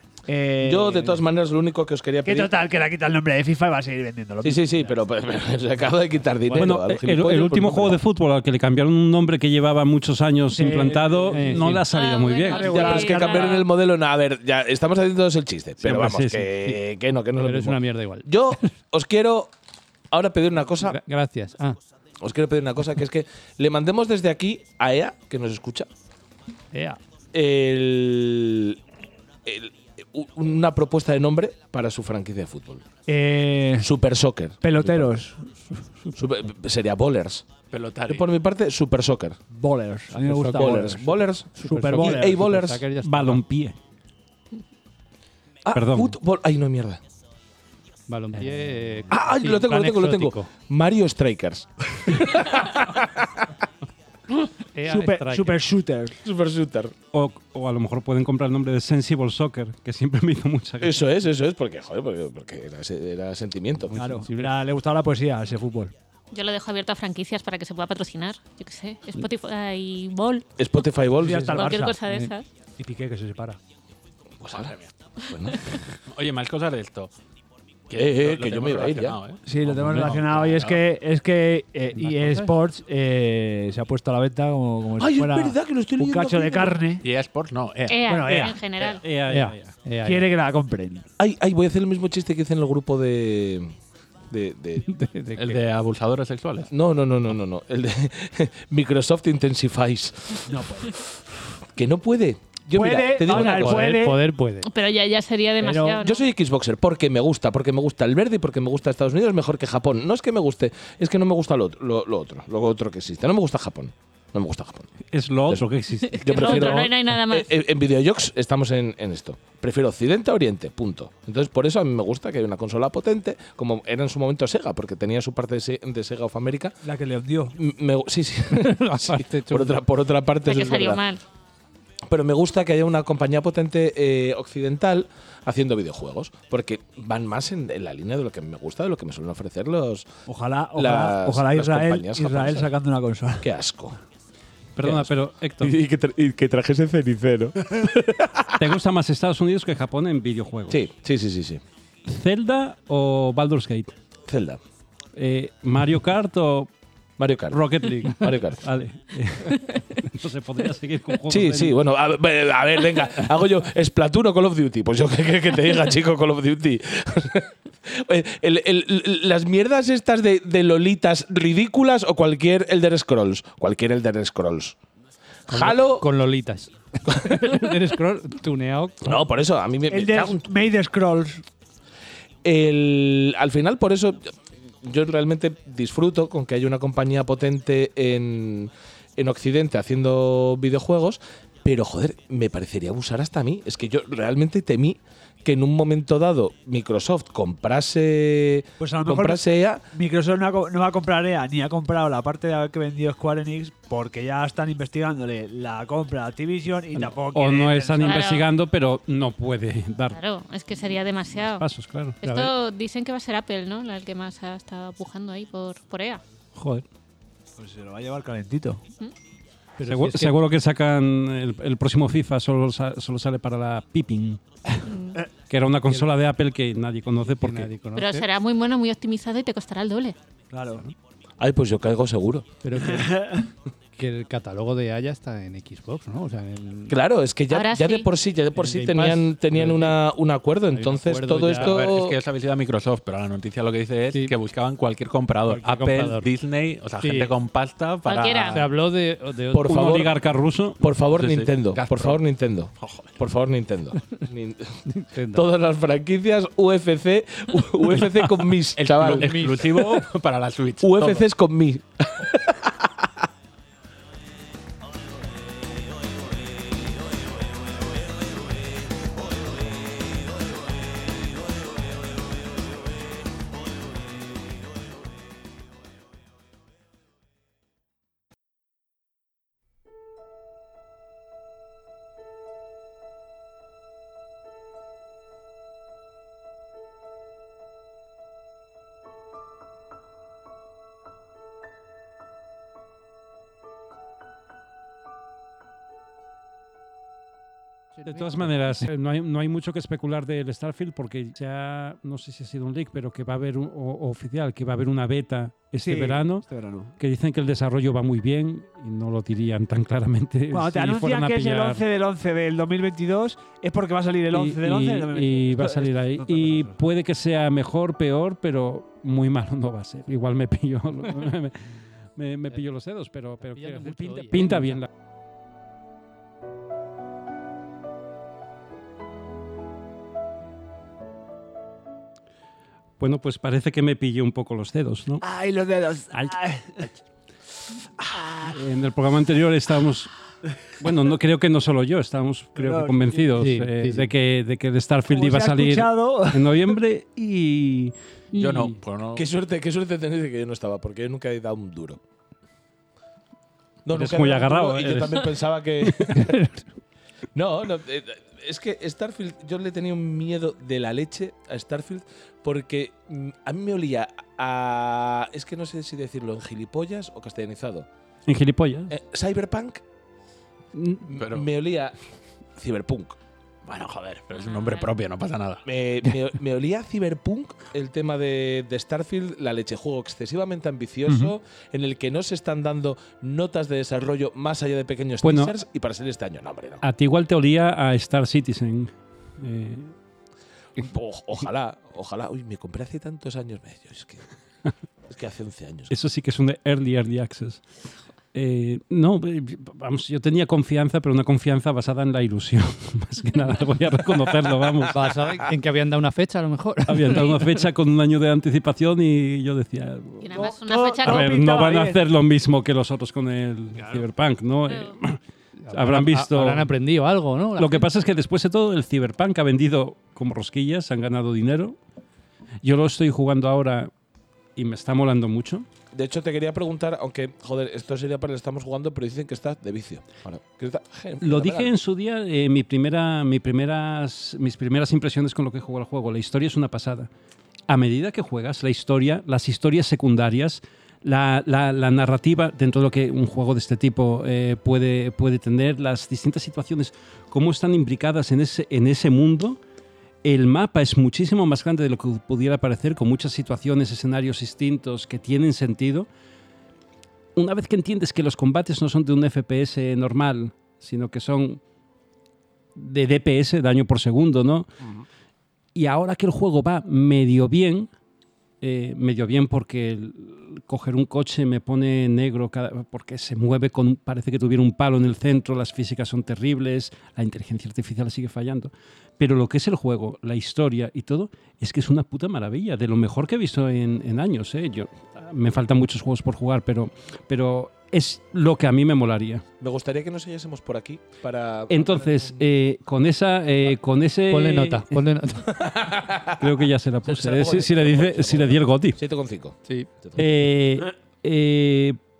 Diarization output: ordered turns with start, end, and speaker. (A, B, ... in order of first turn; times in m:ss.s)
0:00.3-0:01.1 A
0:00.6-0:02.5 B
0:02.2-0:04.8 A
0:04.4-0:08.0 B
0:06.4-0:06.8 C
0:06.5-0:12.7 D
0:10.5-0:11.7 A
0:11.3-0:11.8 C
0:11.9-0:13.6 E
0:12.5-0:13.6 A
0:12.6-0:19.5 B
0:15.8-0:16.5 D
0:17.4-0:18.7 C
0:20.1-0:21.0 B
0:20.8-0:21.8 C
0:22.2-0:25.9 B
0:26.7-0:27.0 C
0:27.3-0:28.8 B
0:29.4-0:32.8 B
0:33.1-0:33.9 A
0:33.8-0:35.1 B
0:34.6-0:35.4 A
0:36.2-0:37.4 B
0:37.7-0:38.2 F
0:38.0-0:39.4 B
0:39.5-0:42.4 A
0:40.2-0:41.0 C
0:40.5-0:42.8 B
0:41.6-0:43.4 C
0:43.0-0:43.8 D
0:45.6-0:47.0 B
0:45.7-0:46.1 D
0:48.1-0:50.5 C
0:48.4-0:48.7 A
0:49.1-0:53.4 B
0:54.7-0:55.6 C
0:54.8-0:56.2 A
0:56.2-0:56.9 B
0:57.1-1:01.0 D
1:00.8-1:04.0 B
1:03.9-1:04.5 C
1:04.0-1:05.9 A
1:06.3-1:10.4 E
1:10.6-1:11.7 B
1:11.2-1:12.0 A
1:11.5-1:12.4 E
1:12.0-1:12.3 C
1:12.8-1:13.6 A
1:14.4-1:15.8 B
1:14.5-1:14.9 F
1:16.1-1:17.1 F
1:17.9-1:20.8 F
1:17.9-1:19.2 B
1:19.4-1:27.0 A
1:22.0-1:22.5 C
1:25.0-1:26.8 B
1:27.0-1:28.2 F
1:27.9-1:29.0 E
1:28.1-1:28.6 A
1:28.8-1:29.7 D
1:29.3-1:30.3 C
1:30.0-1:31.1 A
1:31.2-1:33.7 B
1:34.3-1:34.9 B
1:34.9-1:35.6 C
1:35.4-1:36.7 F
1:36.7-1:40.5 B
1:40.5-1:40.9 A
1:41.7-1:44.0 B
1:42.7-1:44.2 A
1:43.3-1:44.7 C
1:44.6-1:46.2 E
1:45.6-1:46.0 A
1:46.0-1:54.9 B
1:55.1-1:56.8 D
1:56.1-1:57.5 E
1:56.2-2:06.7 B
2:06.8-2:07.5 A
2:07.6-2:11.0 B
2:08.6-2:09.8 C
2:10.4-2:11.2 E
2:12.1-2:20.0 B
2:20.3-2:23.4 A
2:20.8-2:22.7 B
2:23.4-2:24.0 B
2:24.8-2:25.7 D
2:24.8-2:28.6 B
2:28.6-2:30.8 D
2:30.7-2:31.6 B
2:32.0-2:33.9 D
2:34.3-2:34.6 B
2:35.2-2:36.7 D
2:37.2-2:38.6 B
2:37.5-2:41.8 D
2:41.3-2:54.8 B
2:55.5-2:56.1 B
2:55.5-2:59.2 C
2:57.1-2:57.6 B
2:59.0-3:00.4 B
2:59.9-3:01.4 A
3:02.4-3:04.3 B
3:04.8-3:19.8 B
3:18.8-3:28.3 A
3:27.3-3:30.2 D
3:28.0-3:28.5 E
3:30.1-3:31.6 E
3:31.5-3:32.2 D
3:32.2-3:36.2 E
3:32.2-3:32.5 C
3:37.6-3:38.8 A
3:39.8-3:40.4 C
3:39.8-3:44.4 D
3:44.8-3:45.2 E
3:45.5-3:47.7 D
3:47.3-3:48.2 C
3:47.9-3:50.2 E
3:50.5-3:50.8 A
3:51.4-3:52.5 B
3:52.6-3:53.1 C
3:52.8-3:53.5 A
3:54.0-3:56.9 C
3:56.9-4:02.2 B
3:57.5-3:58.1 E
3:58.6-4:00.0 C
4:00.7-4:01.9 C
4:01.6-4:08.6 F
4:05.4-4:06.3 C
4:07.0-4:07.3 C
4:08.0-4:08.6 E
4:08.4-4:09.9 C
4:09.5-4:10.2 B
4:09.6-4:10.8 D
4:10.8-4:14.8 B
4:11.2-4:12.2 F
4:12.8-4:13.1 F
4:14.9-4:15.4 C
4:15.3-4:20.0 B
4:18.8-4:21.3 F
4:20.8-4:22.7 B
4:58.0-4:58.7 C
4:58.0-5:06.4 D
5:05.8-5:06.9 A
5:07.0-5:11.8 D
5:10.5-5:16.7 A
5:14.3-5:24.9 D
5:23.4-5:24.8 C
5:33.0-5:35.2 D
5:35.2-5:36.8 A
5:38.1-5:38.6 A
5:38.5-5:40.1 D
5:40.8-5:47.9 D
5:42.6-5:43.3 A
5:43.3-5:44.1 C
5:45.1-5:46.7 A
5:48.3-5:48.7 E
5:48.4-5:49.2 F
5:49.2-5:52.0 B
5:53.8-5:56.3 B
5:53.9-5:55.3 D
5:55.9-5:56.3 D
5:57.3-6:07.9 B
6:08.3-6:08.9 D
6:08.9-6:09.8 B
6:10.7-6:11.1 D
6:11.1-6:12.0 B
6:11.1-6:11.5 F
6:12.6-6:13.2 B
6:13.6-6:15.6 F
6:14.3-6:14.9 E
6:15.6-6:26.8 B
6:25.2-6:25.5 D
6:26.8-6:29.9 D
6:30.8-6:34.2 B
6:35.1-6:35.9 B
6:35.9-6:37.6 D
6:38.3-6:45.0 D
6:44.9-6:47.6 C
6:46.9-6:50.3 D
6:50.2-6:51.4 E
6:50.3-6:52.0 A
6:51.0-6:55.2 D
6:53.8-6:54.0 C
6:55.6-6:57.9 C
6:55.7-6:56.7 D
6:57.6-7:01.8 D
7:02.6-7:03.9 D
7:04.6-7:05.6 D
7:05.9-7:11.7 B
7:11.2-7:17.1 D
7:17.7-7:29.6 D
7:30.2-7:36.1 D
7:37.4-7:41.6 D
7:42.8-7:44.7 D
7:45.7-7:47.9 D
7:48.6-8:09.4 D
8:09.6-8:12.4 B
8:11.7-8:14.9 D
8:14.3-8:15.5 C
8:15.5-8:16.5 B
8:16.4-8:19.0 D
8:17.1-8:20.2 B
8:20.2-8:22.0 D